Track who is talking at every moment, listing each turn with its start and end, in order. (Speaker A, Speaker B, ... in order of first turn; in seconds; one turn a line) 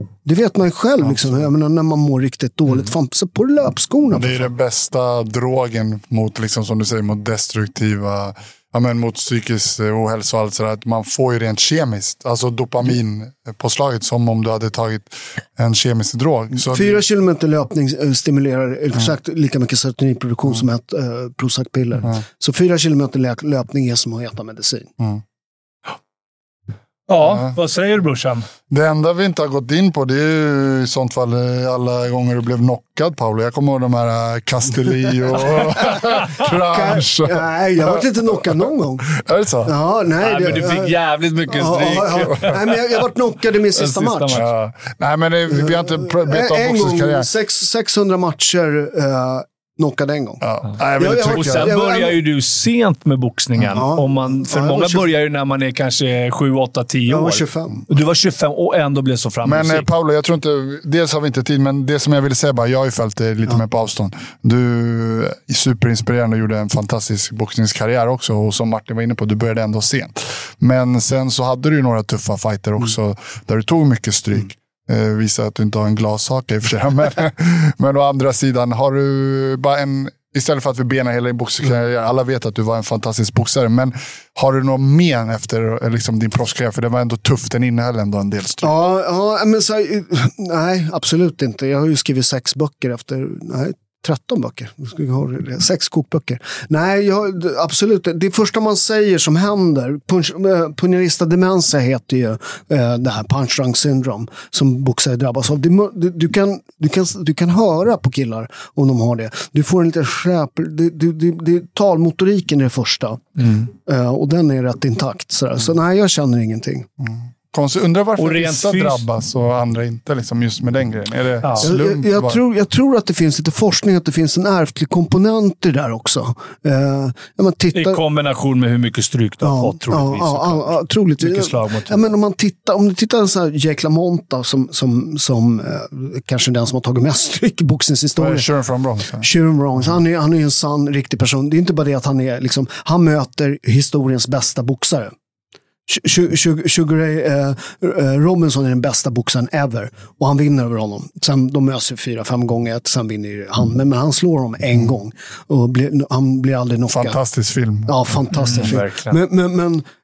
Speaker A: 0.2-4.5
Speaker B: 4.2-17.0
Speaker A: 16.6-25.0
Speaker C: 27.1-28.4
Speaker B: 28.7-38.0
Speaker A: 35.7-39.1
Speaker B: 39.1-39.7
Speaker A: 39.6-41.0
Speaker C: 40.2-43.0
Speaker A: 41.5-44.4
Speaker C: 43.8-44.5
Speaker B: 44.3-47.3
Speaker A: 45.5-50.4
Speaker B: 50.4-51.7
Speaker A: 50.9-52.2
Speaker C: 51.2-59.9
Speaker A: 53.7-55.1
Speaker A: 57.1-57.9
Speaker B: 59.4-88.7
Speaker A: 88.6-116.9
Speaker B: 117.0-122.4
Speaker C: 118.2-119.0
Speaker C: 121.4-121.7
Speaker A: 121.6-128.0
Speaker C: 127.7-132.1
Speaker A: 129.4-138.4
Speaker B: 138.2-139.3
Speaker A: 139.2-145.1
Speaker A: 145.9-157.2
Speaker B: 156.9-158.0
Speaker A: 157.9-159.8
Speaker C: 158.4-159.2